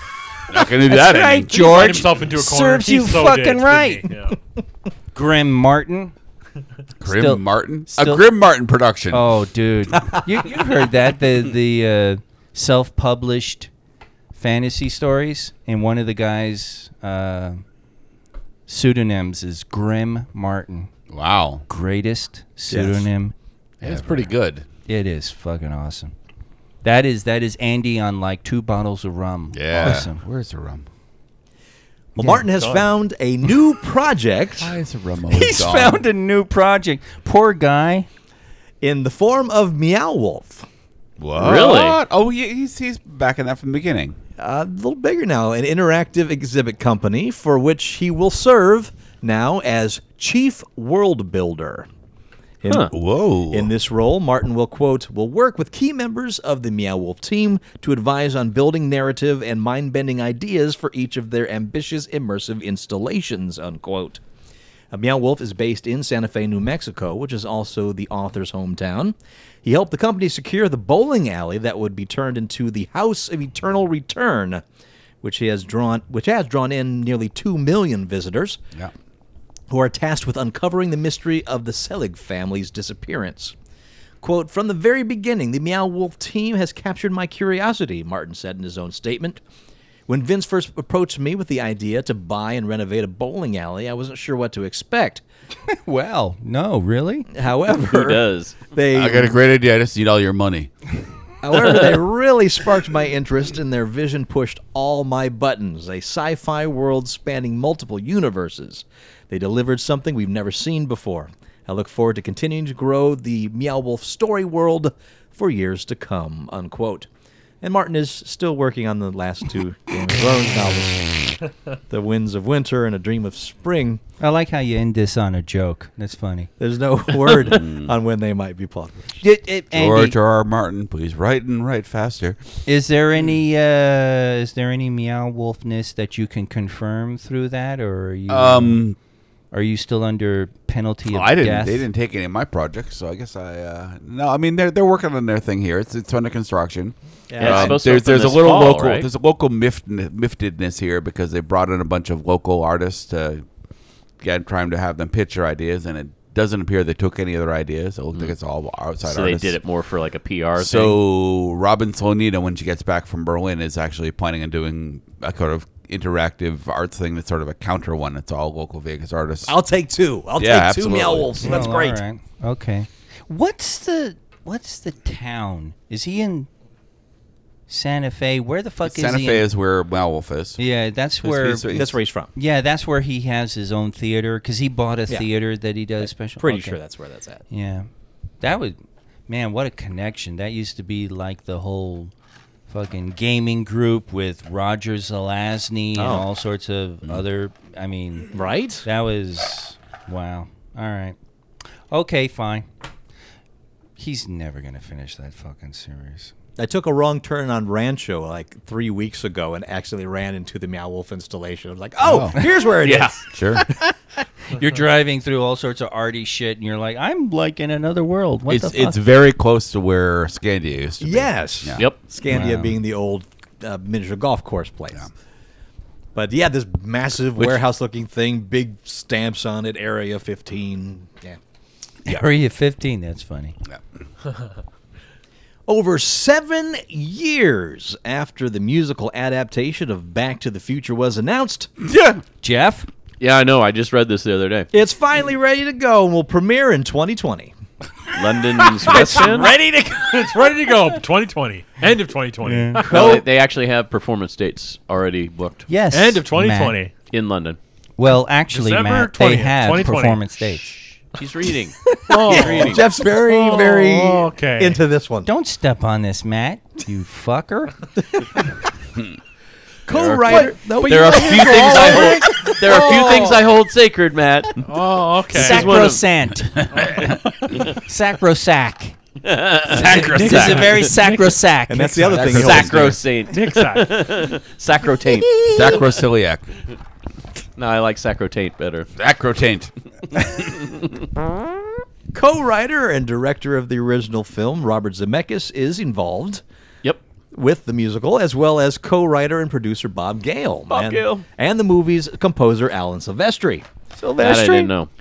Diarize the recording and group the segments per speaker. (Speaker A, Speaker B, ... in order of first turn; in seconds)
Speaker A: 0.5-1.9, 7.0-9.2, 21.1-21.6, 23.8-24.7, 29.5-30.9, 34.6-36.0, 41.2-44.2, 52.9-53.7, 98.9-100.7, 127.4-127.9, 129.7-132.4, 138.3-139.0, 141.1-153.4, 154.2-159.6, 160.6-169.6, 170.4-171.7, 178.8-180.6, 181.2-182.0, 212.0-212.4, 213.3-213.7, 218.5-221.9, 227.3-227.6, 241.8-242.2, 276.5-277.2, 279.7-281.1, 282.1-283.0, 285.5-286.5, 289.0-289.7
Speaker B: 0.9-4.1, 5.1-6.1, 7.0-8.2, 9.1-13.7, 14.4-17.6, 18.7-20.9, 21.7-24.3, 24.9-26.1, 26.8-30.2, 32.2-32.4, 35.3-38.1, 95.7-97.3, 124.2-126.5, 129.2-130.2, 132.7-138.8, 139.5-141.8, 171.4-176.5, 177.7-179.4, 180.6-186.8, 187.5-187.9, 188.4-188.8, 189.3-192.1, 192.7-201.2, 201.9-202.7, 204.0-206.3, 214.5-219.0, 222.3-222.8, 232.1-233.6, 242.4-242.9, 252.4-253.2, 255.7-256.8, 258.0-260.8, 265.2-267.7, 270.3-271.2, 275.3-277.1, 277.7-279.0, 279.7-282.4, 285.3-285.8, 304.0-304.7
Speaker C: 1.5-4.4, 32.5-32.9, 248.8-253.2, 255.9-256.9, 258.5-260.7, 262.1-264.8, 272.4-273.2, 274.6-276.0, 276.7-277.7, 280.1-281.3, 283.3-284.2
Speaker D: 22.7-23.1, 32.2-34.7, 38.8-40.7, 44.4-51.9, 52.6-52.9, 53.5-64.2, 64.9-74.6, 75.2-78.6, 79.7-83.5, 84.2-89.4, 90.1-95.2, 97.3-99.4, 101.4-117.1, 117.6-121.4, 121.9-124.0, 126.6-129.2, 147.3-147.8, 169.5-172.0, 181.7-182.3, 186.4-187.4, 196.0-196.3, 198.3-198.9, 206.6-213.4, 221.0-225.1, 226.2-231.4, 235.7-241.7, 244.7-247.6, 248.9-249.6, 261.9-265.3, 268.0-268.4, 269.9-273.2, 281.7-283.0, 292.1-296.4, 297.3-303.7
Speaker E: 41.4-42.0, 97.7-98.6, 101.5-102.0, 147.4-149.1, 159.0-161.0, 212.8-213.2, 243.2-244.7, 248.1-249.5, 252.9-255.7, 257.1-257.6, 261.1-262.9, 269.9-274.7, 275.3-276.0, 279.2-279.9, 282.2-285.3, 287.6-288.9, 300.7-301.2, 304.2-304.9